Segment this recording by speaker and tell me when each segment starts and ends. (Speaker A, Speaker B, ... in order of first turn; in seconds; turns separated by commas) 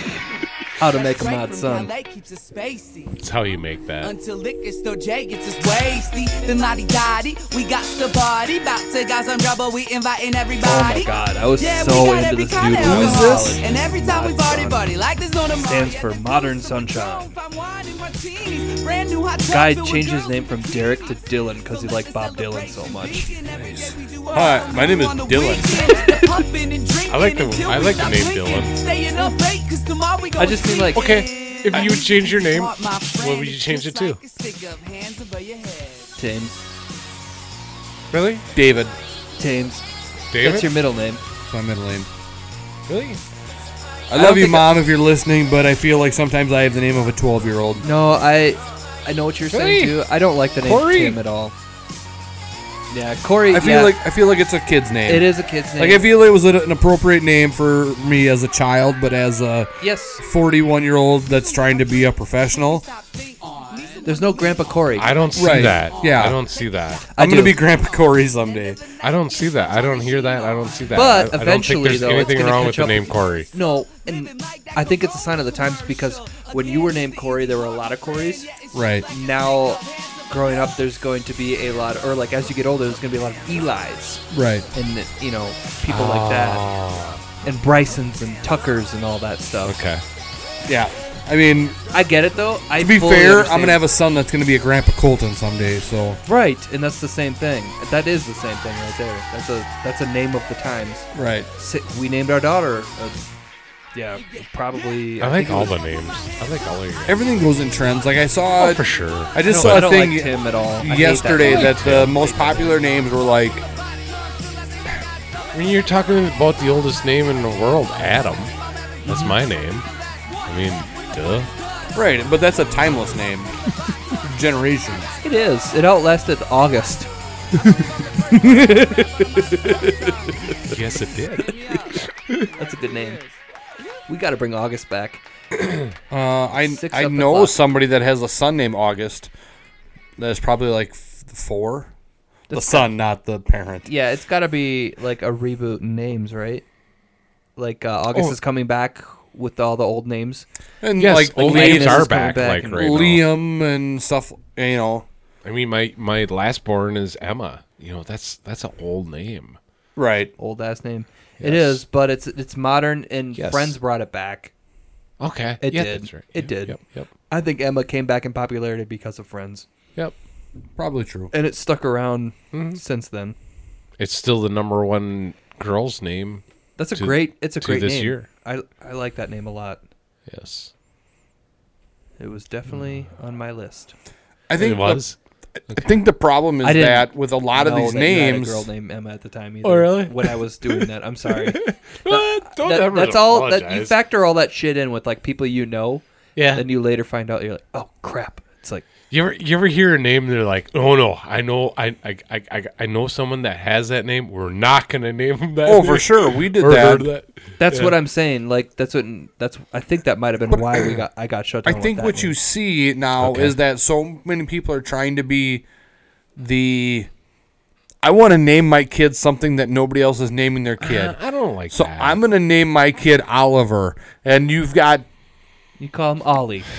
Speaker A: 0.8-1.9, Speaker B: 0.8-3.2, Speaker C: 3.2-4.1, Speaker B: 4.0-21.1, Speaker A: 10.6-14.9, Speaker D: 12.8-13.6, Speaker A: 15.5-17.4, Speaker A: 19.5-23.3, Speaker B: 21.7-36.1, Speaker D: 23.5-25.9, Speaker A: 25.9-26.3, Speaker C: 27.1-28.7, Speaker A: 30.4-31.1, Speaker C: 30.9-34.2, Speaker A: 36.2-36.6, Speaker C: 38.1-38.5, Speaker D: 38.5-39.0, Speaker A: 39.4-39.8, Speaker C: 40.3-40.7, Speaker A: 40.4-41.2, Speaker D: 41.5-42.1, Speaker C: 42.9-43.2, Speaker D: 44.1-47.8, Speaker A: 44.1-44.7, Speaker A: 47.8-51.5, Speaker C: 49.5-50.0, Speaker C: 50.6-51.2, Speaker A: 52.9-54.0, Speaker D: 53.5-62.9, Speaker A: 55.0-56.0, Speaker A: 59.8-60.2, Speaker B: 62.8-64.8, Speaker A: 64.0-65.3, Speaker C: 65.0-67.0, Speaker D: 65.3-66.4, Speaker A: 67.1-67.6, Speaker D: 67.2-68.8, Speaker C: 69.0-73.5, Speaker B: 69.7-71.2, Speaker A: 70.9-78.5, Speaker B: 73.9-77.6, Speaker B: 78.5-80.6, Speaker D: 78.7-79.0, Speaker A: 79.1-84.2, Speaker D: 84.3-84.7, Speaker A: 84.7-86.6, Speaker C: 85.9-87.2, Speaker A: 87.4-89.8, Speaker C: 89.6-90.0, Speaker D: 90.7-91.8, Speaker A: 91.9-93.8, Speaker D: 92.8-96.2, Speaker A: 96.2-103.2, Speaker D: 101.1-101.5, Speaker A: 103.9-105.8, Speaker C: 105.2-107.2, Speaker D: 107.0-113.6, Speaker C: 108.6-109.9, Speaker A: 109.5-112.8, Speaker C: 111.5-112.1, Speaker C: 115.5-118.5, Speaker A: 119.0-119.4, Speaker C: 119.0-119.9, Speaker C: 120.5-121.5, Speaker D: 121.9-123.5, Speaker D: 124.2-125.2, Speaker A: 125.2-127.1, Speaker A: 128.3-130.8, Speaker B: 129.4-130.1, Speaker C: 130.6-131.6, Speaker B: 131.4-131.9, Speaker A: 132.6-133.2, Speaker B: 132.6-133.3, Speaker A: 134.1-135.2, Speaker D: 136.1-139.3, Speaker A: 136.6-137.6, Speaker D: 140.2-141.9, Speaker A: 142.5-142.9, Speaker D: 142.5-143.9, Speaker A: 143.9-146.6, Speaker A: 147.6-150.5, Speaker D: 150.8-152.1, Speaker C: 151.0-153.2, Speaker A: 151.3-152.9, Speaker D: 152.8-155.1, Speaker C: 155.4-159.6, Speaker D: 160.0-160.3, Speaker A: 160.4-164.5, Speaker C: 161.4-161.8, Speaker C: 163.4-163.8, Speaker C: 165.2-167.1, Speaker A: 165.6-166.8, Speaker A: 167.3-169.7, Speaker D: 170.8-171.3, Speaker A: 171.3-173.4, Speaker C: 172.5-172.8, Speaker C: 174.0-176.4, Speaker A: 176.8-179.8, Speaker C: 176.9-178.3, Speaker C: 180.3-180.7, Speaker A: 182.2-183.9, Speaker D: 184.5-185.0, Speaker C: 184.6-185.2, Speaker D: 185.8-188.7, Speaker A: 186.6-198.9, Speaker C: 189.6-194.0, Speaker C: 196.4-196.6, Speaker C: 199.1-208.0, Speaker D: 205.6-207.1, Speaker A: 207.6-212.3, Speaker D: 210.5-210.8, Speaker D: 211.6-215.6, Speaker C: 213.2-213.6, Speaker D: 216.4-217.1, Speaker D: 218.0-221.2, Speaker C: 220.8-222.2, Speaker D: 221.7-225.0, Speaker A: 225.8-226.7